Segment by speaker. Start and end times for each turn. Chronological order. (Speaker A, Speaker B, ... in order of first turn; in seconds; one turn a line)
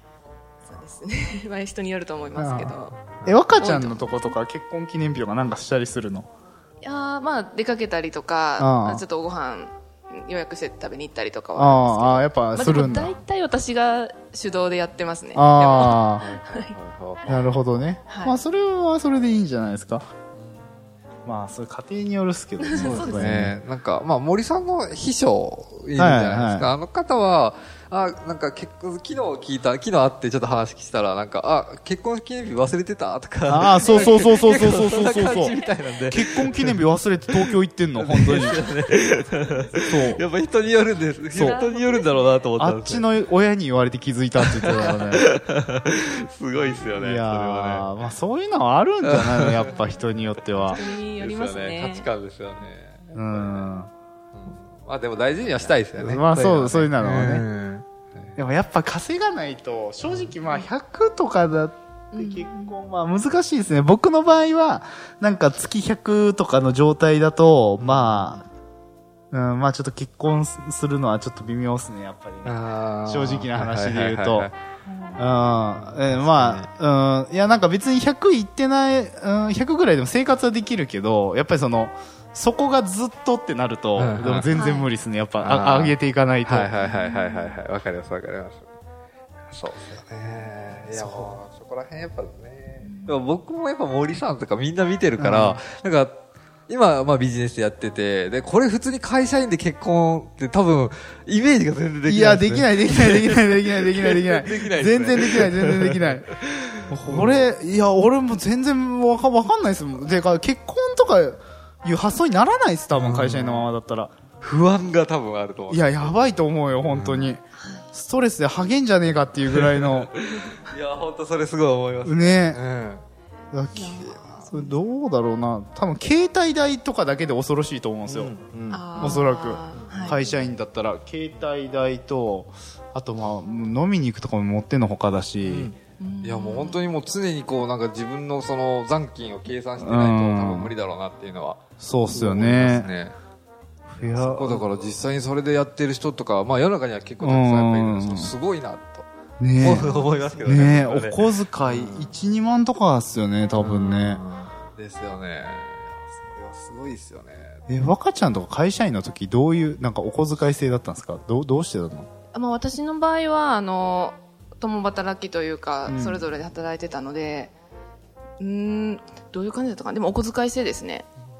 Speaker A: 0.7-4.3
Speaker B: 2.4-6.3
Speaker C: 3.1-3.8
Speaker A: 6.8-16.7
Speaker B: 8.6-9.0
Speaker B: 11.5-13.1
Speaker B: 15.3-16.2
Speaker C: 15.9-17.6
Speaker B: 17.3-20.1
Speaker A: 18.1-18.4
Speaker C: 20.4-20.6
Speaker B: 21.2-23.6
Speaker A: 22.7-23.3
Speaker C: 22.8-36.8
Speaker B: 26.0-26.7
Speaker B: 33.5-35.5
Speaker A: 33.8-35.7
Speaker B: 36.1-38.7
Speaker C: 37.4-43.1
Speaker B: 39.9-40.2
Speaker B: 41.3-41.6
Speaker A: 41.4-42.3
Speaker B: 42.6-45.3
Speaker C: 44.4-47.9
Speaker B: 46.9-50.8
Speaker C: 49.0-49.7
Speaker A: 50.6-52.1
Speaker C: 50.7-53.7
Speaker B: 53.1-53.9
Speaker C: 54.3-58.4
Speaker B: 55.7-57.5
Speaker B: 58.4-68.4
Speaker A: 62.1-62.7
Speaker C: 67.8-68.3
Speaker B: 69.3-74.5
Speaker C: 72.4-74.5
Speaker B: 75.2-86.7
Speaker C: 75.7-76.7
Speaker C: 84.0-84.5
Speaker A: 84.5-84.9
Speaker C: 85.4-88.6
Speaker A: 86.8-87.5
Speaker C: 89.5-107.4
Speaker B: 90.9-91.3
Speaker A: 92.8-93.2
Speaker B: 95.2-95.6
Speaker B: 102.0-114.1
Speaker C: 112.9-113.7
Speaker C: 114.4-116.1
Speaker B: 115.7-117.4
Speaker C: 116.9-117.3
Speaker A: 117.5-117.9
Speaker B: 117.9-120.1
Speaker C: 119.5-123.0
Speaker B: 122.0-122.6
Speaker B: 123.5-128.3
Speaker A: 123.7-124.7
Speaker C: 123.8-124.5
Speaker C: 128.1-129.2
Speaker A: 128.7-130.2
Speaker B: 129.0-135.7
Speaker C: 129.8-130.2
Speaker C: 135.4-141.6
Speaker A: 136.0-136.8
Speaker B: 139.8-140.7
Speaker B: 141.8-142.9
Speaker C: 142.1-143.1
Speaker B: 143.9-144.7
Speaker C: 144.0-152.1
Speaker B: 147.2-148.3
Speaker B: 149.4-154.2
Speaker A: 149.6-150.4
Speaker C: 153.6-157.6
Speaker B: 157.7-162.1
Speaker A: 162.3-167.5
Speaker B: 165.9-166.2
Speaker A: 168.4-171.1